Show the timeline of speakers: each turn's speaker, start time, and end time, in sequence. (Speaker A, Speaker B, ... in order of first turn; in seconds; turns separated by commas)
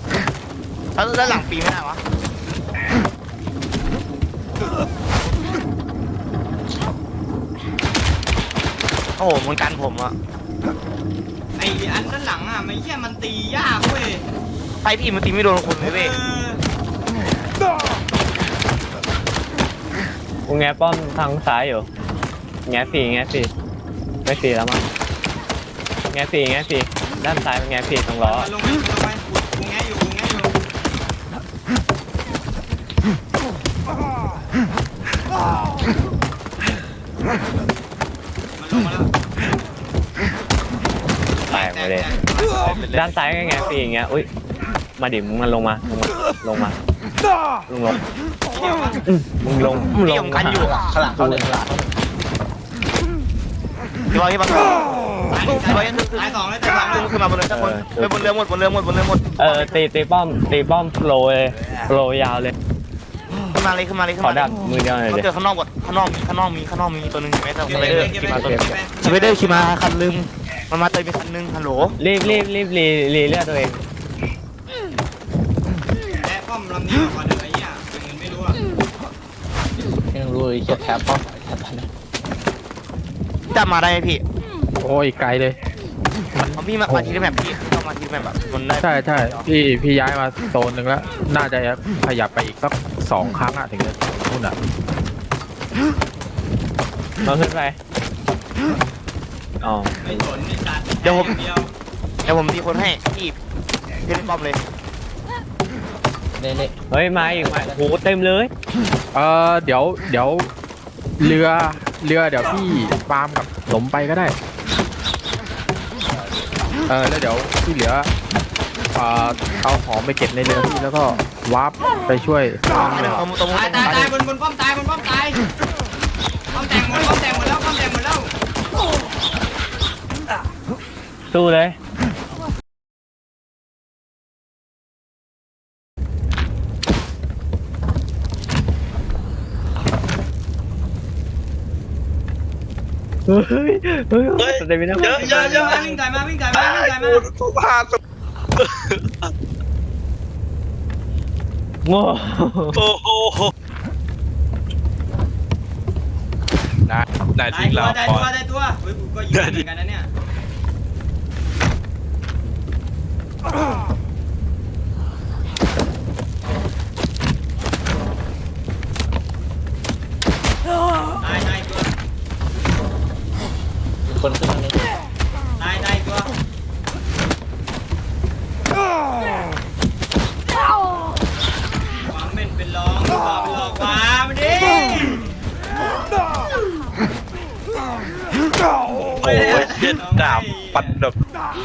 Speaker A: 0.9-2.0, Speaker A: 9.2-10.1, Speaker B: 11.6-14.2, Speaker A: 14.8-16.1, Speaker B: 15.8-16.6, Speaker C: 20.4-21.9, Speaker C: 22.6-23.5, Speaker C: 24.2-24.8, Speaker C: 26.1-28.5, Speaker B: 28.2-30.5, Speaker B: 38.6-39.1, Speaker B: 41.5-42.8, Speaker C: 41.5-42.1, Speaker A: 42.5-43.1, Speaker C: 42.9-44.3, Speaker C: 45.0-46.8, Speaker C: 47.7-48.0, Speaker B: 48.5-49.0, Speaker C: 49.0-50.7, Speaker A: 49.9-50.8, Speaker D: 50.4-52.0, Speaker A: 54.1-59.4, Speaker B: 55.3-57.1, Speaker C: 57.5-58.3, Speaker C: 59.4-62.5, Speaker A: 63.5-72.0, Speaker C: 64.2-65.3, Speaker B: 67.6-69.7, Speaker D: 67.8-68.8, Speaker C: 72.0-73.8, Speaker B: 76.1-78.6, Speaker D: 79.8-81.9, Speaker A: 83.5-84.2, Speaker E: 84.8-85.6, Speaker E: 86.3-87.2, Speaker A: 86.5-89.4, Speaker E: 88.8-94.5, Speaker C: 97.2-97.8, Speaker C: 99.6-100.0, Speaker B: 100.0-101.7, Speaker A: 101.0-101.4, Speaker A: 102.2-103.4, Speaker A: 104.0-104.6, Speaker D: 106.4-107.8, Speaker C: 106.9-108.5, Speaker E: 109.1-110.5, Speaker E: 111.2-114.3, Speaker E: 116.9-118.1, Speaker E: 118.9-123.2, Speaker A: 122.8-123.9, Speaker B: 123.5-125.4, Speaker E: 123.8-124.1, Speaker B: 126.5-128.3, Speaker C: 131.3-131.8, Speaker C: 143.3-145.8, Speaker F: 144.4-146.0, Speaker B: 145.0-147.3, Speaker F: 146.5-148.0, Speaker F: 148.6-149.0, Speaker C: 151.8-152.8, Speaker F: 152.7-153.5, Speaker F: 156.9-158.3, Speaker B: 157.5-160.1, Speaker F: 159.3-159.7, Speaker B: 171.2-171.9, Speaker D: 174.1-174.9, Speaker B: 175.6-176.3, Speaker B: 182.0-185.3, Speaker B: 189.1-191.0, Speaker F: 189.1-191.2